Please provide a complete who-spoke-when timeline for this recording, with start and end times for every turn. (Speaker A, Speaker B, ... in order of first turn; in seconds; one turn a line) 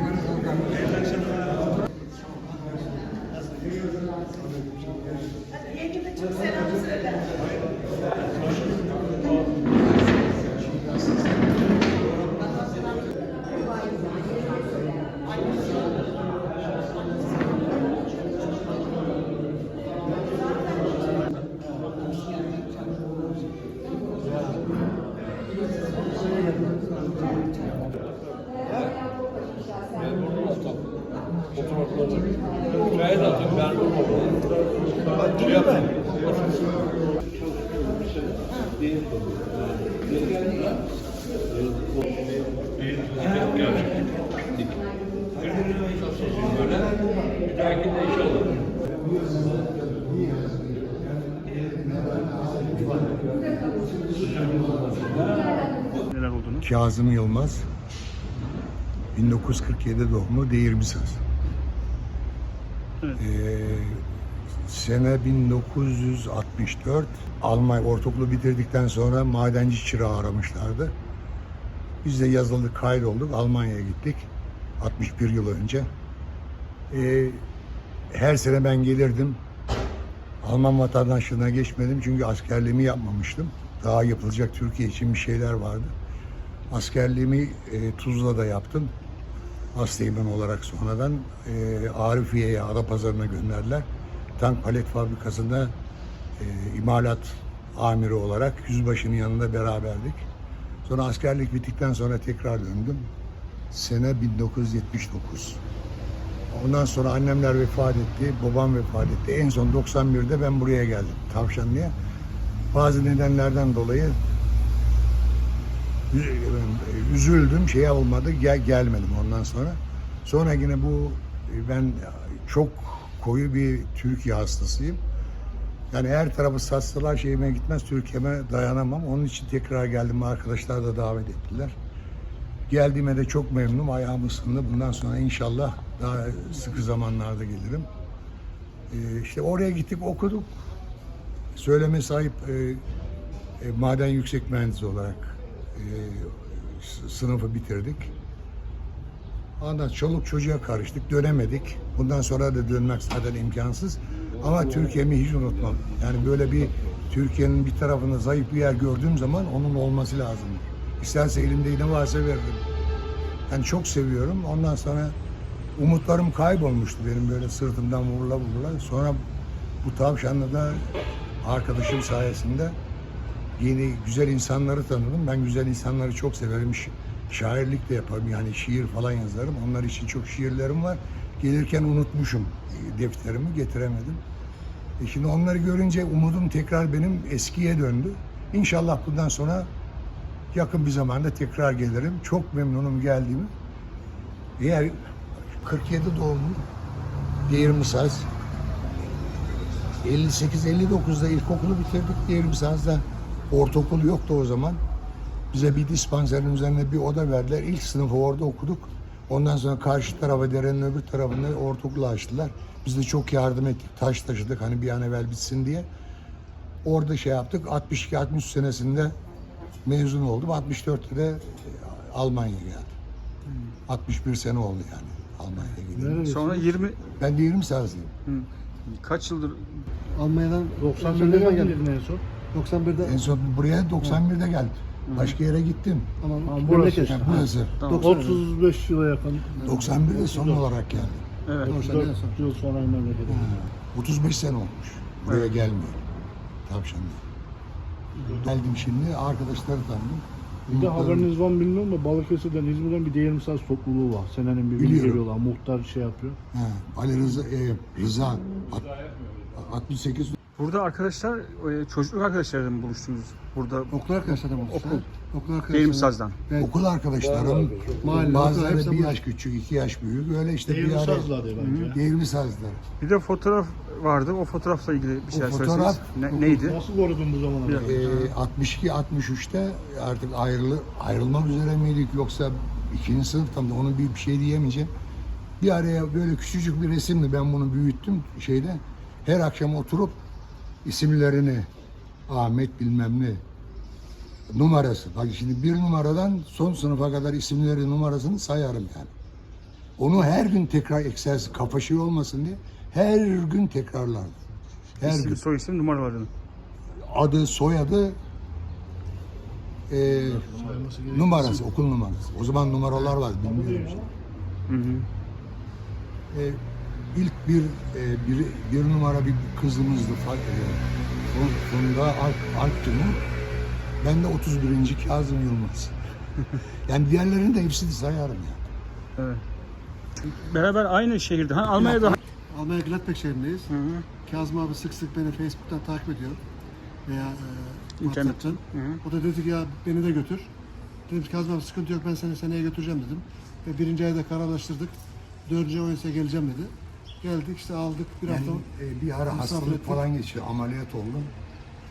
Speaker A: 49.2-51.0
Speaker A: 51.6-55.0
Speaker B: 55.9-56.7
Speaker A: 56.6-57.7
Speaker A: 59.1-61.2
Speaker A: 63.2-64.0
Speaker A: 64.6-71.0
Speaker A: 72.0-75.9
Speaker A: 76.9-77.4
Speaker A: 78.1-79.4
Speaker A: 80.4-85.9
Speaker A: 86.7-88.9
Speaker A: 89.7-95.8
Speaker A: 96.4-100.3
Speaker A: 100.8-103.1
Speaker A: 103.7-105.6
Speaker A: 106.5-112.0
Speaker A: 112.7-114.2
Speaker A: 116.1-125.0
Speaker A: 125.9-131.8
Speaker A: 132.7-137.9
Speaker A: 138.9-140.6
Speaker A: 141.6-142.8
Speaker A: 143.6-148.1
Speaker A: 149.6-162.6
Speaker A: 163.5-165.2
Speaker A: 165.8-169.2
Speaker A: 169.8-172.8
Speaker A: 173.6-184.2
Speaker A: 185.0-189.7
Speaker A: 190.5-193.5
Speaker A: 194.6-196.7
Speaker A: 197.5-198.3
Speaker A: 200.0-204.8
Speaker A: 205.5-215.9
Speaker A: 216.8-219.2
Speaker A: 219.8-222.9
Speaker B: 223.5-223.8
Speaker A: 223.9-226.3
Speaker C: 225.9-226.7
Speaker B: 226.3-227.0
Speaker A: 227.1-228.1
Speaker B: 228.3-229.8
Speaker D: 230.1-231.8
Speaker C: 230.8-232.2
Speaker D: 232.5-233.2
Speaker A: 233.0-236.1
Speaker B: 235.1-235.4
Speaker D: 236.2-238.3
Speaker C: 236.5-237.5
Speaker A: 237.0-237.8
Speaker B: 237.8-238.4
Speaker C: 238.0-240.5
Speaker D: 239.5-240.0
Speaker A: 239.6-241.2
Speaker B: 241.5-241.7
Speaker C: 241.6-243.5
Speaker D: 241.6-242.4
Speaker A: 243.3-246.1
Speaker B: 245.3-245.5
Speaker A: 246.7-247.2
Speaker A: 248.4-251.3
Speaker C: 250.7-256.4
Speaker A: 254.8-255.2
Speaker A: 256.5-259.0
Speaker A: 259.5-260.4
Speaker B: 260.6-265.1
Speaker D: 263.9-266.7
Speaker B: 265.7-266.4
Speaker A: 266.6-271.3
Speaker C: 267.4-268.1
Speaker D: 268.0-269.2
Speaker C: 270.7-272.0
Speaker B: 271.6-271.9
Speaker A: 271.9-272.8
Speaker B: 273.0-276.8
Speaker A: 275.3-276.1
Speaker D: 276.3-276.6
Speaker C: 276.5-278.0
Speaker B: 277.6-278.3
Speaker A: 277.8-284.9
Speaker A: 285.6-290.2
Speaker A: 290.8-291.7
Speaker A: 292.3-293.4
Speaker A: 294.5-299.1
Speaker A: 300.0-304.4
Speaker B: 305.0-306.3
Speaker A: 305.0-305.4
Speaker A: 307.0-308.2
Speaker A: 309.9-314.1
Speaker C: 310.2-311.6
Speaker C: 313.1-314.1
Speaker B: 314.7-315.1
Speaker A: 316.3-316.6
Speaker A: 317.1-323.2
Speaker A: 324.0-325.9
Speaker A: 326.9-328.7
Speaker B: 329.2-329.4
Speaker B: 330.2-332.2
Speaker D: 331.8-333.7
Speaker B: 333.7-334.1
Speaker D: 334.2-336.4
Speaker D: 337.1-340.5
Speaker B: 338.0-339.0
Speaker D: 341.1-344.9
Speaker D: 345.5-348.7
Speaker A: 348.3-351.3
Speaker D: 349.3-350.0